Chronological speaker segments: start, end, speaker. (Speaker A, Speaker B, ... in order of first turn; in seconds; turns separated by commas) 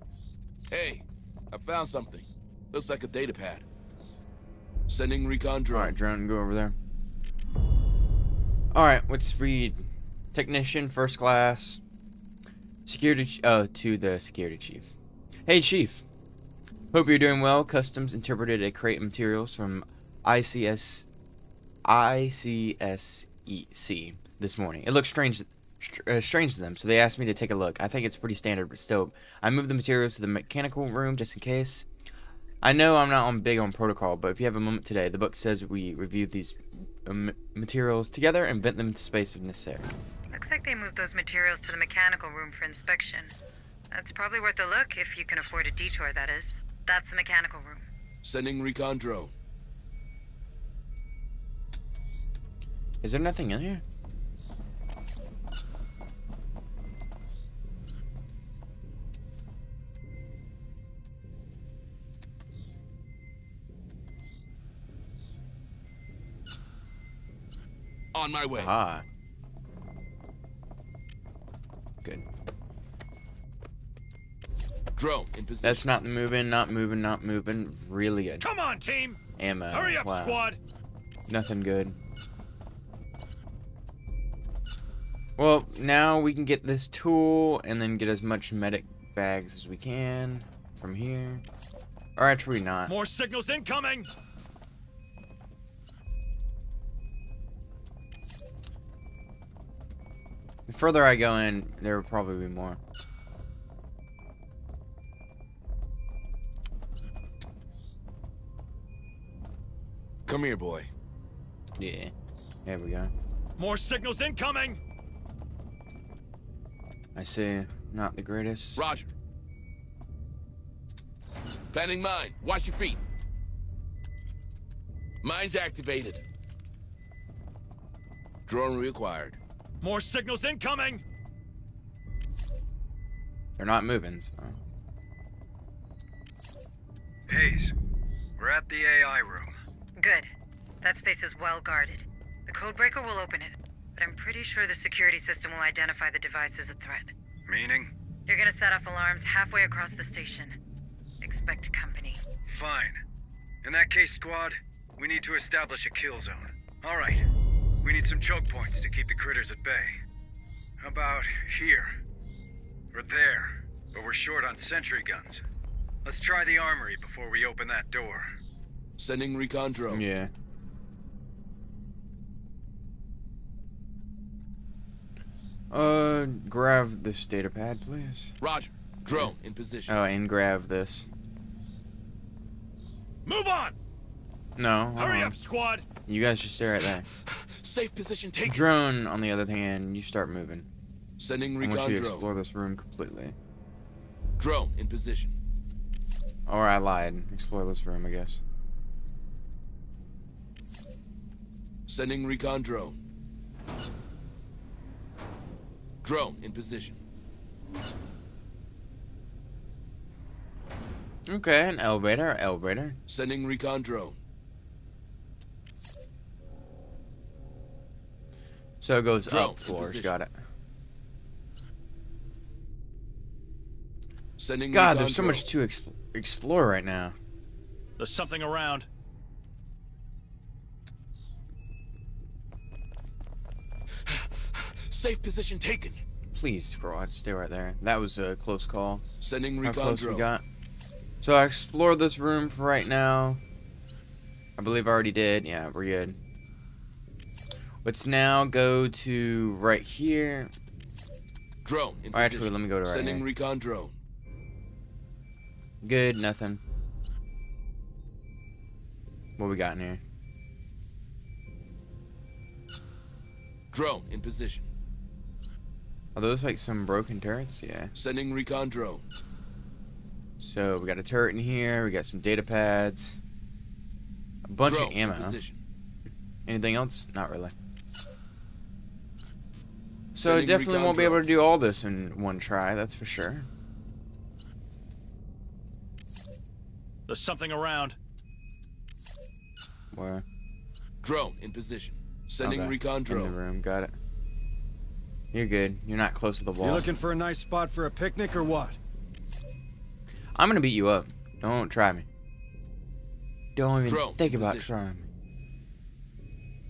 Speaker A: 0.7-3.6, Speaker A: 4.9-6.0, Speaker B: 5.7-6.8, Speaker B: 8.7-11.8, Speaker B: 12.8-14.9, Speaker B: 15.4-16.0, Speaker B: 16.9-21.1, Speaker B: 21.8-31.9, Speaker B: 32.6-39.9, Speaker C: 40.3-43.3, Speaker C: 43.9-47.9, Speaker A: 48.2-49.3, Speaker B: 53.0-53.8, Speaker A: 68.1-68.7, Speaker B: 68.5-69.0, Speaker A: 75.0-75.8, Speaker B: 75.6-78.5, Speaker D: 78.4-79.2, Speaker B: 79.4-80.4, Speaker D: 79.7-80.6, Speaker B: 81.3-82.0, Speaker B: 85.4-91.4, Speaker B: 92.2-92.9, Speaker D: 92.9-94.1, Speaker B: 100.7-102.8, Speaker A: 110.3-110.9, Speaker B: 111.8-112.1, Speaker B: 112.7-113.1, Speaker D: 113.6-114.8, Speaker B: 117.1-118.8, Speaker A: 118.8-119.1, Speaker A: 121.7-123.0, Speaker A: 125.2-126.2, Speaker A: 128.5-129.4, Speaker D: 129.8-131.0, Speaker B: 133.6-134.6, Speaker E: 137.3-137.7, Speaker E: 138.4-139.6, Speaker C: 140.0-140.3, Speaker C: 140.8-147.1, Speaker E: 147.4-147.9, Speaker C: 148.3-150.6, Speaker C: 151.2-152.2, Speaker E: 152.4-153.0, Speaker E: 153.6-157.2, Speaker E: 157.8-160.0, Speaker E: 160.8-161.9, Speaker E: 162.9-165.4, Speaker E: 166.0-168.3, Speaker A: 169.0-170.0, Speaker B: 169.9-170.3, Speaker B: 175.7-178.3, Speaker A: 178.4-179.9, Speaker B: 179.9-181.1, Speaker D: 183.2-183.8, Speaker B: 184.6-185.4, Speaker D: 185.0-185.8, Speaker B: 186.1-187.1, Speaker A: 187.3-188.6, Speaker B: 188.4-190.7, Speaker A: 191.2-192.3, Speaker B: 191.6-193.4, Speaker A: 194.4-195.3, Speaker B: 196.5-198.4, Speaker A: 201.9-203.0, Speaker A: 206.0-207.0, Speaker B: 211.3-213.0, Speaker A: 213.1-214.2, Speaker B: 218.8-220.3, Speaker A: 219.3-220.1, Speaker A: 224.4-225.4, Speaker B: 224.7-227.2, Speaker D: 228.0-228.9, Speaker A: 234.0-236.0, Speaker B: 236.3-239.0, Speaker A: 239.2-240.3, Speaker B: 239.6-240.4, Speaker B: 241.2-243.4, Speaker B: 244.6-246.2, Speaker B: 247.8-250.5, Speaker A: 251.6-253.9, Speaker B: 252.1-253.3, Speaker B: 255.8-256.6, Speaker B: 259.4-260.0, Speaker A: 263.7-264.7, Speaker B: 266.1-267.9, Speaker A: 267.9-269.0, Speaker B: 270.4-273.2, Speaker B: 274.4-275.4, Speaker A: 274.6-275.6, Speaker B: 276.4-277.5, Speaker B: 280.1-283.5, Speaker A: 280.1-281.2, Speaker D: 287.1-288.0, Speaker B: 289.9-290.2, Speaker A: 291.0-293.3, Speaker B: 292.4-293.9, Speaker B: 295.3-296.9, Speaker F: 296.6-298.8, Speaker B: 300.4-302.1, Speaker B: 303.6-305.1, Speaker A: 303.8-304.7